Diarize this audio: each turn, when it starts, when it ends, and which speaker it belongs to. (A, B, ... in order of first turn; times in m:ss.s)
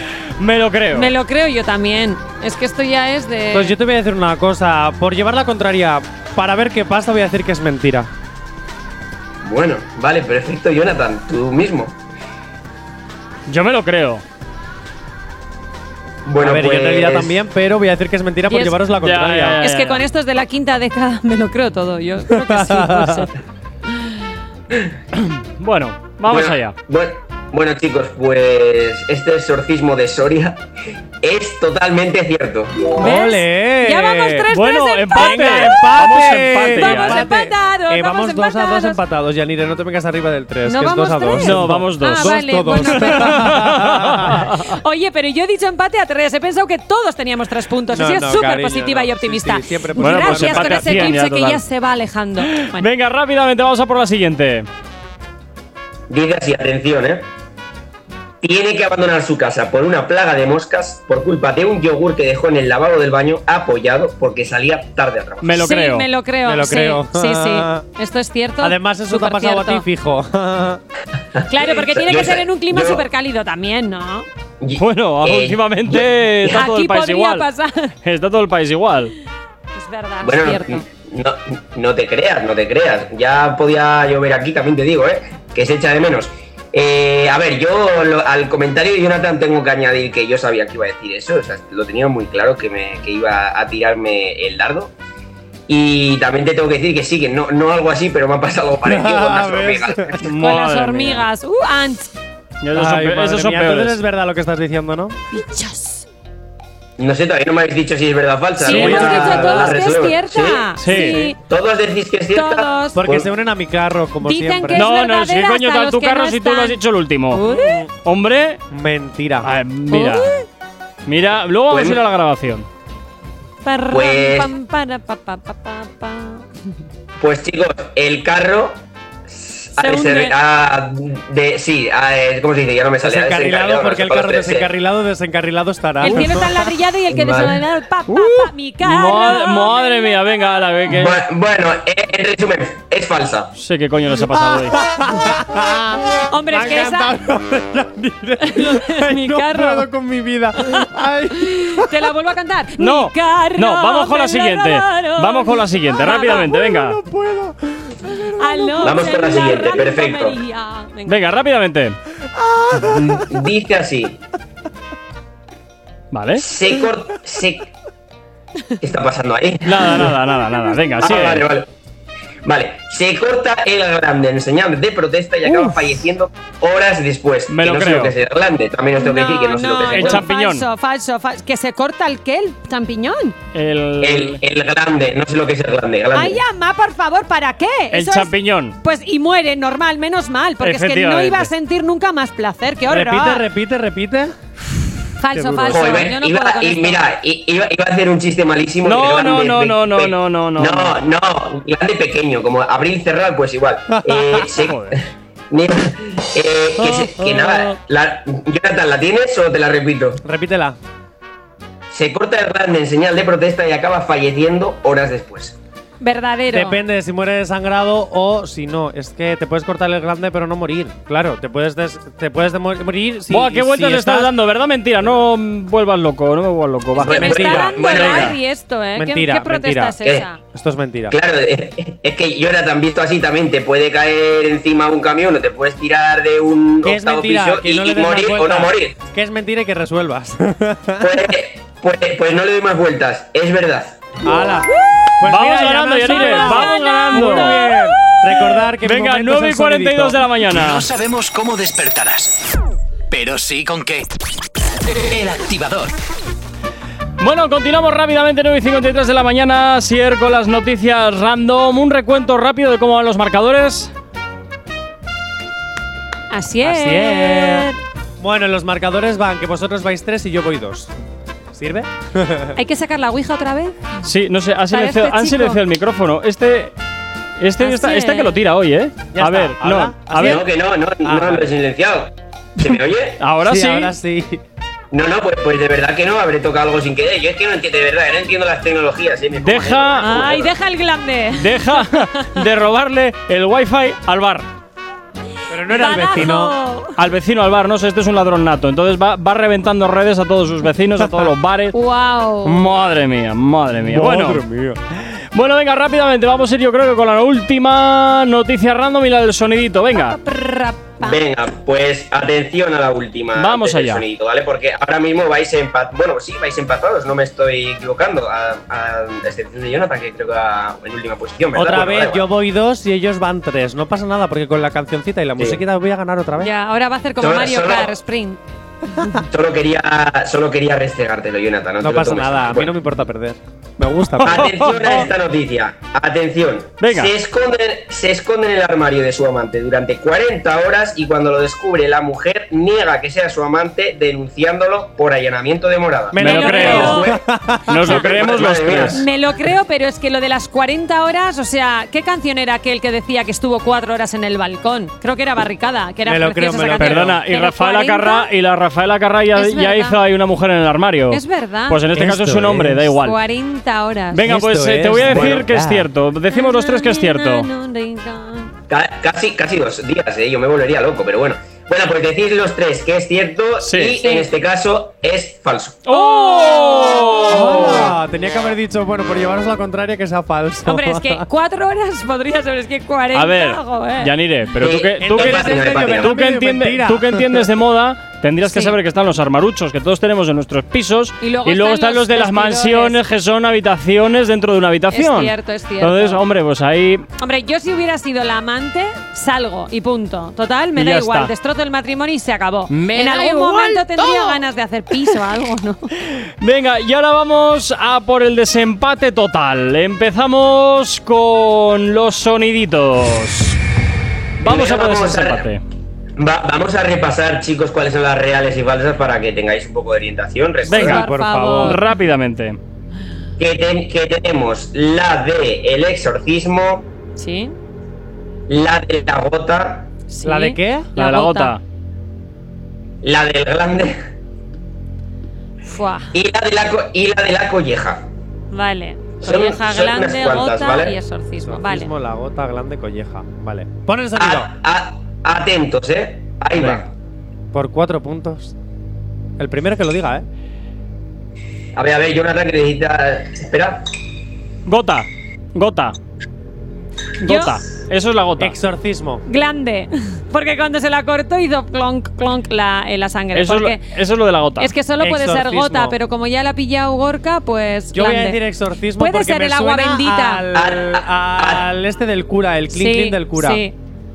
0:00.4-0:01.1 A
0:00.9-0:03.8 B
0:03.5-0:08.1 C
0:09.4-0:12.0 D
0:13.5-0:14.2 A
0:16.2-0:17.4 D
0:16.4-0:19.6 C
0:18.5-0:18.8 B
0:19.0-0:20.0 A
0:19.6-0:23.3 B
0:22.3-0:23.3 C
0:25.2-0:26.8 A
0:26.3-0:30.6 D
0:31.2-0:32.9 D
0:33.0-0:34.5 C
0:33.0-0:39.0 B
0:34.5-0:37.2 A
0:35.1-0:44.5 C
0:40.6-0:43.6 B
0:41.4-0:44.8 A
0:44.5-0:52.9 B
0:47.9-0:51.2 C
0:50.0-0:51.6 A
0:52.6-0:54.7 A
0:56.1-0:57.3 D
0:58.4-1:05.6 D
1:05.4-1:06.1 A
1:05.6-1:09.8 B
1:06.4-1:07.9 C
1:08.6-1:10.8 C
1:11.4-1:13.1 D
1:11.5-1:14.3 B
1:14.6-1:16.6 D
1:14.8-1:17.5 A
1:16.5-1:17.9 B
1:18.0-1:19.1 A
1:19.7-1:20.8 B
1:20.2-1:34.9 D
1:35.7-1:40.2 D
1:38.8-1:40.1 C
1:40.2-1:41.3 A
1:40.2-1:42.1 B
1:42.6-1:44.0 A
1:42.7-1:45.2 C
1:45.3-1:46.1 B
1:47.0-1:50.8 D
1:48.6-1:51.4 B
1:48.7-1:49.7 A
1:50.8-1:51.3 A
1:51.4-1:53.3 D
1:52.3-1:53.0 B
1:53.0-1:54.9 C
1:54.2-1:56.8 B
1:54.7-1:57.4 A
1:57.3-1:57.9 B
1:57.4-1:57.9 C
1:58.0-1:58.6 A
1:58.7-1:59.6 C
1:59.4-2:00.3 A
1:59.9-2:00.4 B
2:01.0-2:02.7 A
2:01.7-2:02.0 D
2:03.6-2:06.4 B
2:03.9-2:04.5 D
2:07.2-2:14.7 D
2:09.8-2:10.4 B
2:13.0-2:16.6 C
2:16.0-2:20.1 B
2:17.1-2:17.6 D
2:18.1-2:21.2 A
2:20.9-2:23.5 D
2:23.6-2:24.8 A
2:24.3-2:32.1 C
2:26.3-2:27.2 B
2:28.4-2:29.9 B
2:30.6-2:36.5 B
2:32.8-2:37.0 A
2:36.1-2:39.0 C
2:38.4-2:41.2 B
2:38.8-2:40.4 D
2:41.1-2:42.0 A
2:42.3-2:43.3 C
2:42.8-2:44.2 D
2:46.1-2:46.5 A
2:46.4-2:47.7 D
2:48.8-2:50.2 D
2:49.6-2:51.5 A
2:51.0-2:51.7 D
2:52.4-3:00.3 D
2:55.4-2:56.0 A
2:57.5-2:58.2 A
2:59.0-3:03.4 B
2:59.9-3:00.7 A
3:03.5-3:04.4 A
3:04.0-3:06.4 D
3:06.1-3:13.4 B
3:07.9-3:08.8 A
3:10.6-3:11.5 A
3:12.9-3:14.3 C
3:15.2-3:17.1 B
3:15.3-3:16.0 C
3:15.7-3:25.0 D
3:18.8-3:21.0 A
3:24.0-3:24.4 C
3:24.6-3:25.0 A
3:25.5-3:30.2 D
3:30.2-3:30.8 C
3:31.9-3:35.6 D
3:36.0-3:36.8 B
3:36.5-3:44.3 C
3:43.3-3:48.4 A
3:47.0-3:48.4 D
3:47.1-3:47.8 C
3:47.1-3:50.4 B
3:49.0-3:51.2 C
3:51.1-3:59.0 D
3:56.8-4:01.3 C
4:01.0-4:04.2 D
4:04.2-4:10.3 C
4:05.3-4:07.6 A
4:06.1-4:07.8 B
4:08.8-4:10.9 A
4:10.5-4:12.4 E
4:13.1-4:14.1 E
4:14.9-4:16.0 E
4:17.2-4:23.9 A
4:26.3-4:27.8 B
4:26.6-4:27.7 C
4:28.2-4:30.9 C
4:31.5-4:32.6 C
4:32.6-4:34.0 B
4:34.0-4:36.7 A
4:34.7-4:35.6 B
4:37.4-4:40.4 A
4:37.6-4:38.4 B
4:39.1-4:40.5 C
4:40.2-4:43.2 D
4:41.0-4:41.5 C
4:42.6-4:43.9 A
4:43.4-4:44.4 C
4:44.9-4:50.5 D
4:49.4-4:50.5 A
4:50.0-4:52.4 B
4:51.4-4:54.5 A
4:55.5-4:56.6 C
4:55.7-4:57.0 B
4:57.0-5:01.7 A
5:01.0-5:01.3 C
5:01.7-5:02.6 B
5:02.4-5:04.4 A
5:03.8-5:04.8 C
5:05.3-5:10.2 A
5:10.0-5:11.2 B
5:11.0-5:22.3 D
5:13.4-5:14.0 A
5:21.5-5:26.5 C
5:25.4-5:25.6 D
5:26.4-5:28.4 B
5:27.2-5:28.0 D
5:29.3-5:32.7 D
5:31.8-5:35.0 C
5:34.2-5:35.1 A
5:34.2-5:47.2 D
5:36.8-5:37.1 A
5:46.1-5:48.0 C
5:46.2-5:47.1 A
5:46.2-5:47.1 B
5:47.7-5:49.0 A
5:47.7-5:49.1 D
5:48.9-5:58.3 B
5:56.1-5:57.2 C
5:56.8-6:03.2 A
5:59.3-6:00.0 B
6:01.1-6:01.8 B
6:01.9-6:02.9 C
6:02.9-6:04.3 B
6:04.1-6:07.5 A
6:04.2-6:05.9 C
6:05.1-6:05.4 D
6:06.3-6:08.5 B
6:08.7-6:15.8 D
6:13.6-6:14.0 A
6:14.0-6:14.3 B
6:15.9-6:17.9 A
6:15.9-6:17.6 B
6:17.3-6:21.3 C
6:20.6-6:24.1 B
6:23.1-6:37.1 A
6:24.6-6:26.1 D
6:25.0-6:27.5 C
6:28.4-6:28.8 B
6:31.2-6:33.0 B
6:34.9-6:36.2 B
6:37.2-6:45.9 B
6:40.8-6:41.3 A
6:42.7-6:44.4 A
6:46.4-6:53.6 A
6:54.4-6:55.5 D
6:54.4-6:55.6 A
6:56.2-7:00.9 D
7:00.7-7:01.8 B
7:00.7-7:01.1 A
7:00.7-7:01.8 C
7:01.6-7:02.6 A
7:03.4-7:06.9 D
7:07.2-7:07.6 B
7:08.5-7:09.9 D
7:10.1-7:11.6 B
7:10.2-7:10.9 C
7:11.0-7:11.6 A
7:13.0-7:14.0 D
7:15.6-7:16.1 B
7:16.1-7:18.1 D
7:18.5-7:21.9 B
7:19.2-7:21.0 D
7:21.4-7:24.5 C
7:24.2-7:26.9 D
7:26.6-7:26.9 A
7:27.5-7:28.5 C
7:29.4-7:30.3 C
7:31.8-7:33.8 D
7:34.7-7:36.0 A
7:37.2-7:38.6 A
7:37.2-7:37.6 B
7:38.4-7:39.2 C
7:39.3-7:43.8 B
7:43.3-7:44.7 A
7:44.6-7:48.4 B
7:45.0-7:46.0 C
7:47.9-7:53.6 C
7:49.0-7:50.4 B
7:50.5-7:51.7 D
7:52.7-7:53.7 B